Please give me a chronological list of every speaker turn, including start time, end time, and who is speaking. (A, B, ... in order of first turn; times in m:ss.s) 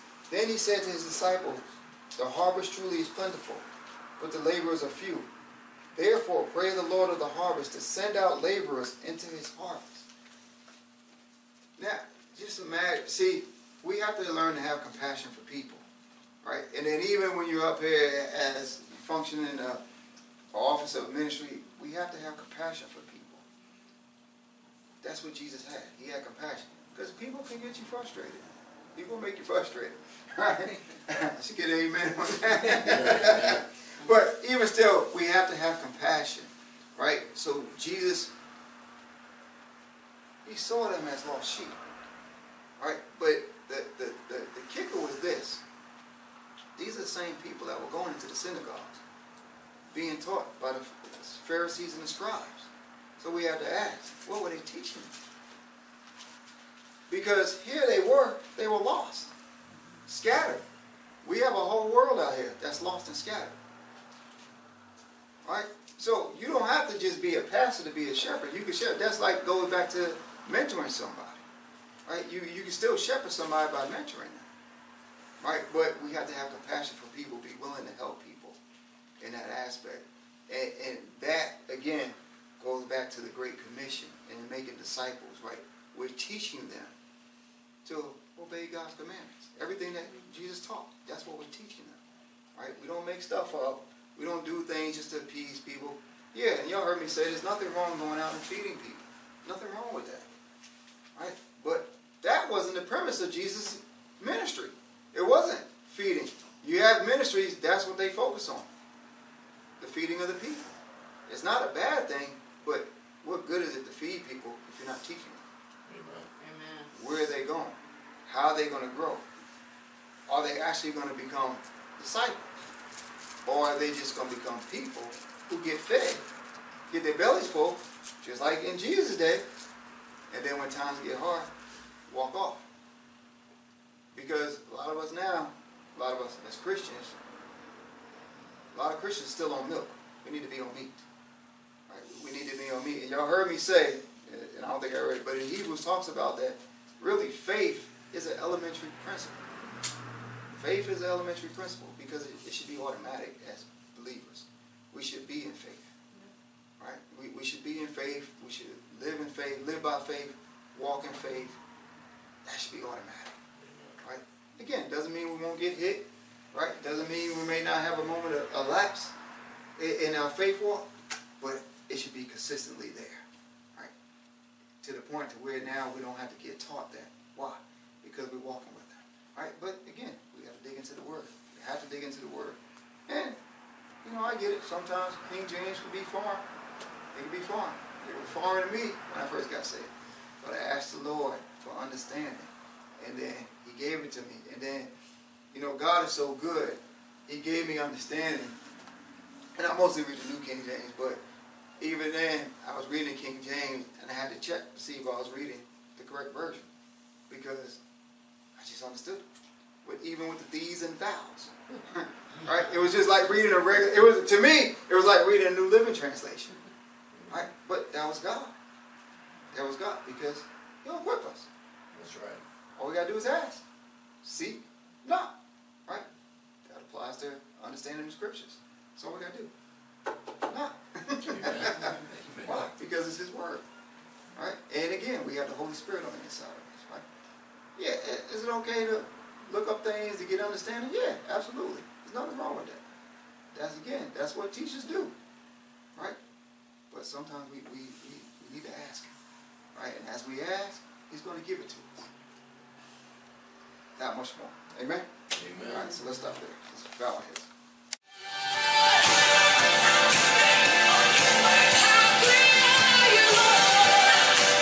0:00.3-0:03.6 A
0:04.2-0:05.3 A
0:05.9-0:10.1 A
0:11.8-0:15.8 A
0:16.4-0:19.8 A
0:20.5-0:23.4 A
0:25.0-0:38.3 A
0:32.7-0:33.6 B
0:40.4-0:41.8 A
0:42.8-0:45.6 A
0:46.8-0:49.0 A
0:49.9-0:55.1 A
0:57.1-0:59.3 A
1:00.1-1:00.6 A
1:01.2-1:03.5 A
1:05.4-1:11.4 A
1:12.0-1:14.4 A
1:15.4-1:18.6 A
1:19.2-1:26.9 A
1:27.8-1:32.0 A
1:32.6-1:40.2 A
1:41.2-1:48.6 A
1:49.8-1:50.7 A
1:51.3-1:55.4 A
1:55.8-1:56.3 B
1:56.4-1:56.9 C
1:56.9-1:59.2 A
2:00.3-2:02.5 A
2:03.4-2:06.2 A
2:06.9-2:09.4 A
2:10.3-2:11.5 A
2:12.1-2:12.6 A
2:14.1-2:17.1 A
2:18.7-2:21.0 A
2:21.9-2:29.4 A
2:30.5-2:35.9 A
2:36.8-2:41.6 A
2:42.4-2:43.4 A
2:43.6-2:44.0 B
2:44.0-2:49.1 A
2:49.8-2:50.9 A
2:51.4-2:53.9 A
2:54.8-3:03.4 A
3:04.0-3:06.4 A
3:07.1-3:14.9 A
3:15.5-3:18.6 A
3:19.5-3:21.2 A
3:21.8-3:26.7 A
3:27.3-3:27.8 A
3:28.6-3:29.2 A
3:29.8-3:36.6 A
3:37.1-3:37.4 B
3:37.3-3:38.5 A
3:39.5-3:41.5 A
3:41.9-3:42.4 B
3:42.8-3:43.6 A
3:44.2-3:45.3 A
3:46.6-3:49.5 A
3:50.5-3:53.6 A
3:51.2-3:52.7 B
3:54.3-3:57.0 A
3:57.8-4:02.8 A
4:03.5-4:05.1 A
4:06.9-4:09.1 A
4:09.7-4:12.1 A
4:14.0-4:15.1 A
4:15.3-4:15.9 B
4:15.6-4:17.5 A
4:21.7-4:23.7 C